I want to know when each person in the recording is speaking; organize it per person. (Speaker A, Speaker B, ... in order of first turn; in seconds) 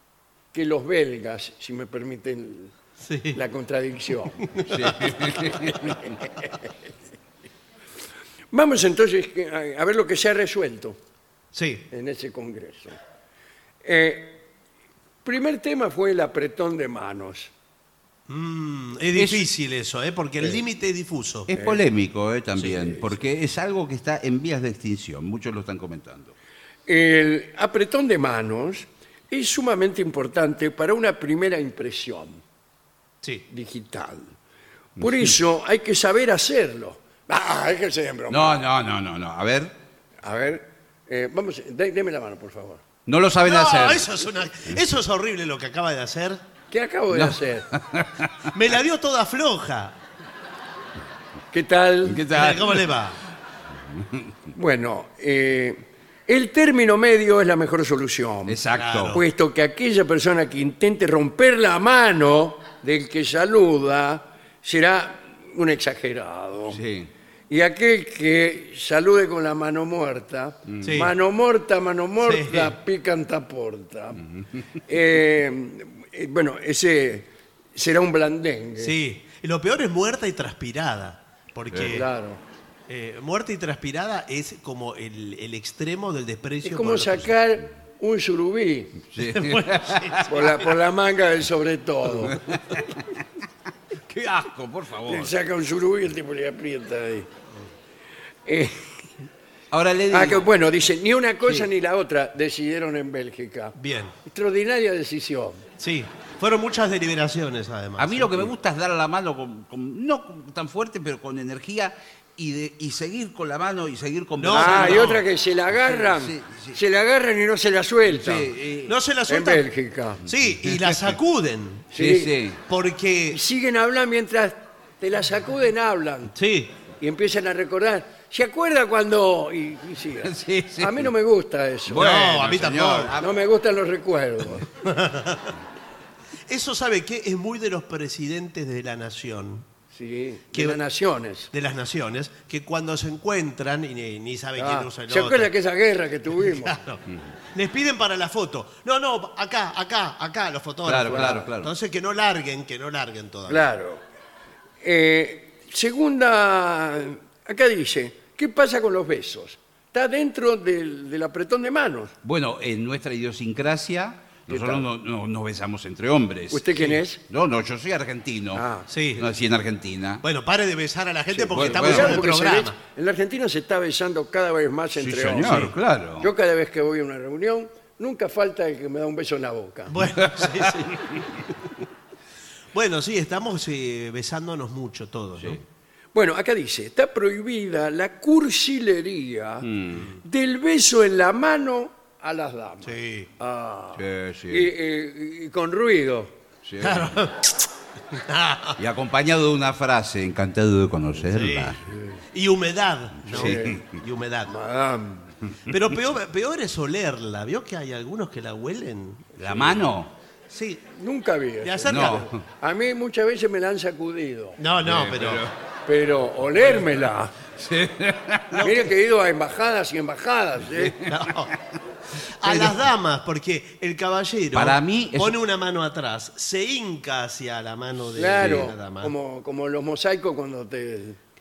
Speaker A: 0.5-2.7, 3.3-5.9, 8.5-11.0, 11.9-13.0, 13.8-14.4, 15.2-17.5, 26.9-32.4, 33.5-34.3, 35.0-38.6, 40.2-42.8, 46.7-47.7, 51.5-52.2, 54.5-58.6, 59.1-66.8, 67.5-74.2, 74.9-78.9, 81.9-82.4, 86.6-89.0, 90.3-92.4, 95.1-97.3, 98.5-99.1, 100.1-105.6, 114.5-118.5, 119.3-120.2, 121.9-122.3, 123.3-126.3, 127.0-132.1, 133.2-134.7, 139.9-141.5, 144.6-146.8, 151.1-151.5, 153.5-154.0, 154.8-162.1, 164.5-164.8, 166.5-167.2, 168.5-168.9, 171.6-179.9, 186.1-189.7, 190.2-196.3, 203.3-203.8, 204.5-205.3, 210.9-214.6, 215.8-217.3, 218.6-221.0, 228.1-231.2
Speaker B: 3.0-3.4, 4.4-5.1, 11.5-11.9, 18.3-21.5, 22.6-23.0, 43.4-46.4, 48.5-50.0, 52.3-53.2, 58.7-59.2, 70.8-71.1, 72.2-72.7, 78.8-82.1, 82.9-87.3, 89.2-90.7, 103.8-104.1, 105.8-108.5, 114.4-115.2, 118.8-119.7, 120.2-121.9, 122.7-123.4, 126.3-126.7, 131.9-133.2, 134.7-135.5, 136.5-139.7, 140.5-140.8, 141.5-145.5, 146.4-147.0, 147.5-153.7, 168.9-169.3, 170.2-172.8, 175.4-175.7, 179.9-181.0, 182.7-185.6, 192.8-193.3, 196.8-198.8, 201.3-201.8, 202.3-204.5, 205.7-209.8, 210.5-210.8, 211.6-212.3, 214.6-215.5, 218.5-218.9, 221.0-221.5, 222.2-229.1
Speaker C: 4.7-6.2, 19.1-19.4, 21.5-26.3, 38.3-39.7, 43.0-44.1, 47.1-48.5, 52.0-52.9, 53.9-54.3, 58.5-59.2, 66.7-67.1, 70.7-71.0, 74.3-74.6, 81.7-82.0, 89.1-90.3, 92.2-93.2, 94.0-95.3, 99.7-100.5, 108.0-115.2, 115.7-116.8, 118.0-119.0, 120.4-121.2, 121.9-122.6, 130.2-131.1, 131.9-133.3, 150.8-151.7, 162.2-168.6, 169.1-170.2, 171.3-172.2, 174.9-176.3, 180.2-181.3, 185.4-185.6, 189.6-190.1, 193.9-194.7, 196.6-197.2, 198.8-201.8, 203.3-203.8, 209.4-210.1, 211.8-212.3, 214.8-215.5, 217.5-218.7, 222.4-222.8, 224.5-225.4, 228.4-228.7